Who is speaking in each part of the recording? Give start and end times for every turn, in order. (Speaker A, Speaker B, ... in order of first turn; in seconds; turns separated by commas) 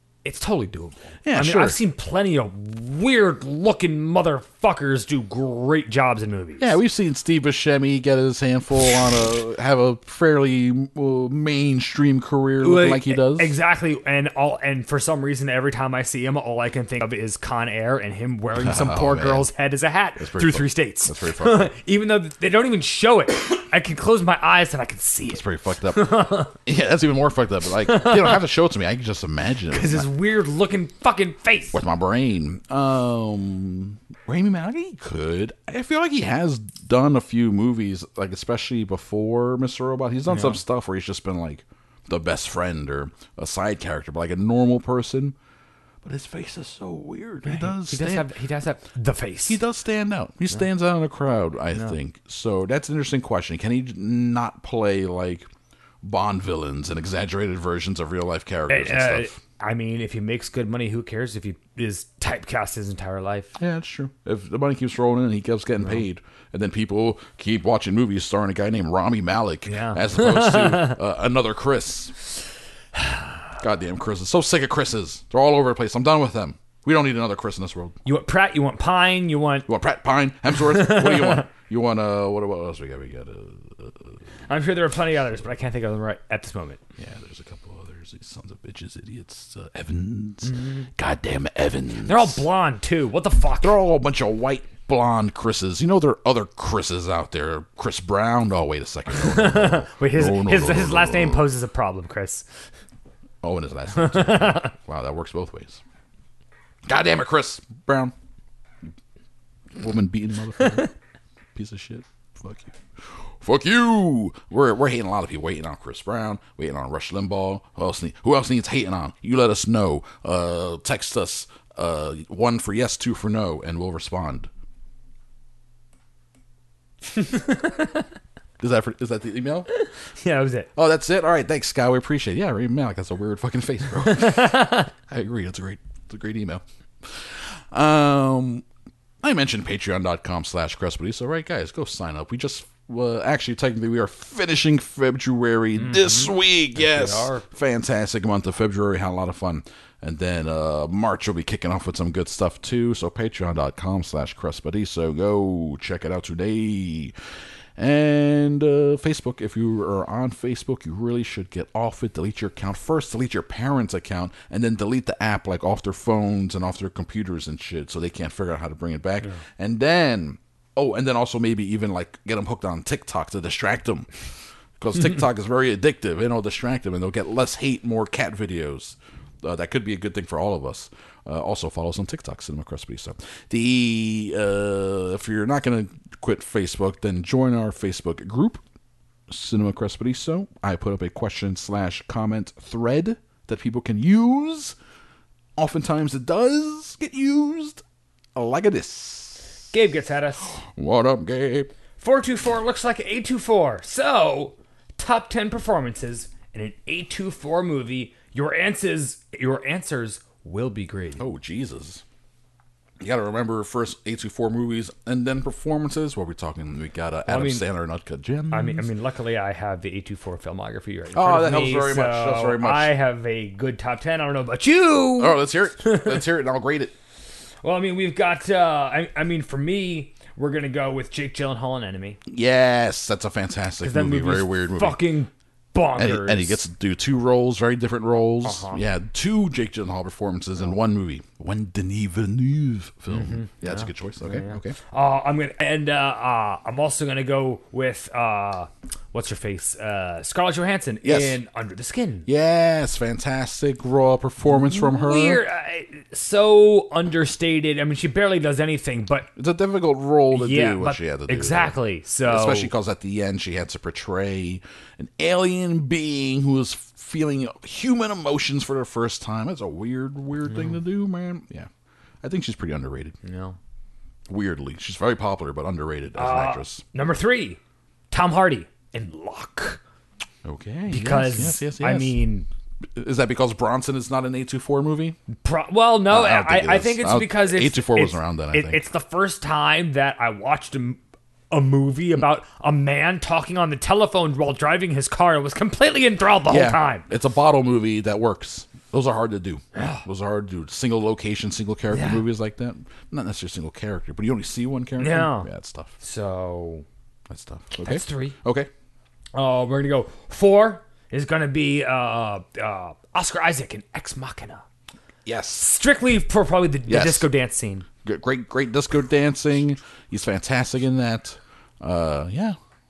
Speaker A: 0.2-6.7, Speaker B: 1.2-1.8, Speaker B: 6.6-13.6, Speaker A: 12.6-26.5, Speaker B: 18.6-19.5, Speaker B: 20.2-21.7, Speaker B: 25.3-30.1, Speaker A: 27.9-28.4, Speaker A: 29.7-31.8, Speaker B: 31.7-45.4, Speaker A: 40.3-40.6, Speaker B: 46.0-48.3, Speaker A: 47.5-49.6, Speaker B: 49.5-55.5, Speaker B: 56.0-59.4, Speaker A: 58.7-63.5, Speaker B: 63.6-72.2, Speaker A: 69.7-71.0, Speaker B: 73.6-78.0, Speaker A: 78.0-79.7, Speaker B: 79.7-84.2, Speaker A: 80.5-81.5, Speaker A: 84.5-86.8, Speaker B: 87.0-92.4, Speaker A: 90.5-90.9, Speaker A: 92.1-93.8, Speaker B: 93.6-101.5, Speaker A: 99.1-102.5, Speaker B: 103.4-105.8, Speaker A: 104.0-104.7, Speaker B: 106.9-108.1, Speaker B: 109.8-110.9, Speaker B: 111.5-124.5, Speaker A: 127.1-128.1, Speaker B: 128.6-129.7, Speaker A: 129.7-130.7, Speaker B: 130.8-138.7, Speaker A: 134.1-134.9, Speaker B: 139.2-157.2, Speaker A: 145.8-147.4, Speaker B: 157.8-174.1, Speaker B: 174.8-188.6, Speaker B: 189.3-194.8, Speaker B: 195.6-197.8, Speaker B: 198.3-199.5, Speaker A: 199.7-200.6, Speaker B: 200.6-201.7, Speaker A: 202.0-211.2, Speaker B: 211.2-212.0, Speaker B: 213.0-218.9, Speaker A: 217.3-217.7, Speaker A: 218.5-226.2, Speaker B: 221.1-222.9, Speaker B: 225.2-226.9, Speaker A: 227.6-232.2, Speaker B: 232.3-235.0, Speaker A: 233.8-236.6, Speaker B: 236.0-244.8, Speaker A: 238.4-238.8, Speaker A: 243.1-252.3, Speaker B: 251.0-251.4, Speaker B: 252.3-255.4, Speaker A: 254.5-259.3, Speaker B: 259.4-261.8, Speaker A: 260.3-262.7, Speaker B: 262.3-271.7, Speaker A: 270.5-270.8, Speaker B: 272.2-273.1, Speaker A: 273.2-273.6, Speaker B: 274.3-276.8, Speaker A: 276.1-277.6, Speaker A: 278.1-279.8, Speaker B: 280.4-282.2, Speaker A: 280.9-282.5, Speaker B: 282.9-285.2, Speaker A: 285.3-291.0, Speaker B: 286.1-288.8, Speaker A: 291.5-297.1, Speaker B: 296.5-305.9, Speaker A: 299.8-300.1, Speaker A: 301.9-302.2, Speaker A: 305.0-305.5, Speaker A: 306.0-306.9, Speaker B: 307.3-308.7, Speaker A: 307.8-308.4, Speaker A: 309.3-314.6, Speaker B: 315.2-315.7, Speaker A: 315.6-317.9, Speaker B: 316.9-317.3, Speaker B: 318.0-322.6